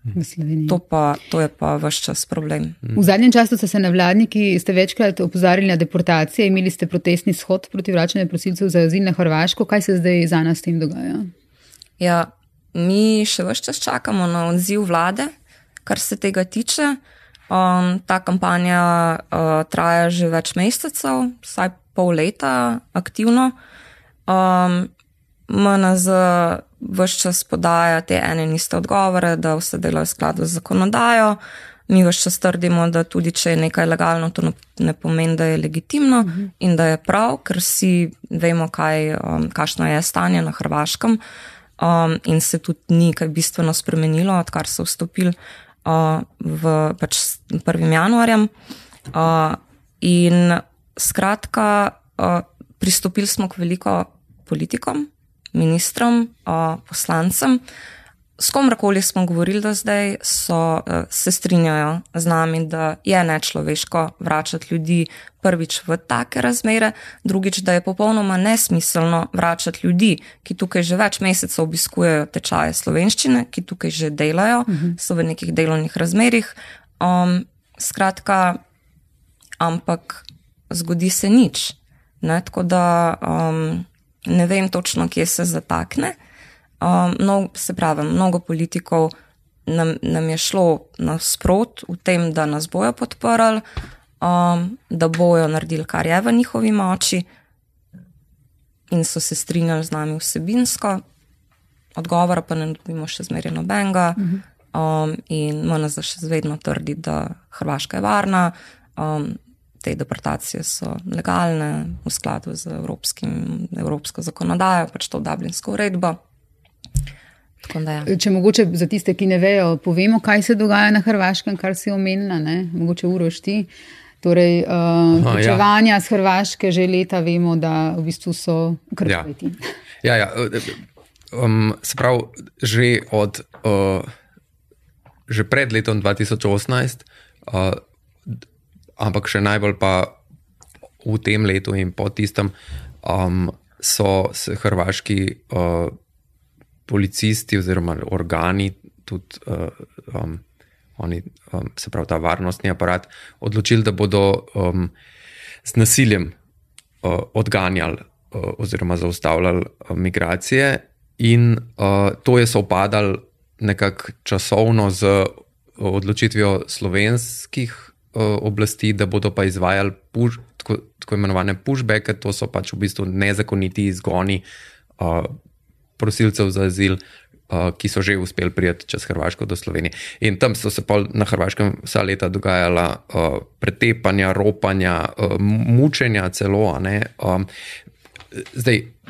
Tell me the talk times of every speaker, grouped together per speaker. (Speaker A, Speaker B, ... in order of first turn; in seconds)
Speaker A: 0.1-0.8, 2.9-11.3, 36.2-36.5, 74.7-74.9, 118.0-123.7, 124.2-129.6
Speaker B: 0.7-2.8, 12.0-15.3, 15.8-23.6, 24.3-24.9, 25.5-41.2, 41.8-48.5, 49.1-57.6, 58.4-78.6, 79.6-86.2, 86.8-89.1, 89.7-93.6, 94.2-97.2, 98.9-101.0, 101.9-116.2, 117.6-118.1
Speaker C: 125.1-125.6, 130.0-134.1, 135.3-137.8, 139.0-140.1, 141.0-145.9, 146.9-150.4, 151.0-154.9, 155.6-156.3, 157.0-174.4, 175.0-175.3, 176.0-187.5, 188.3-188.9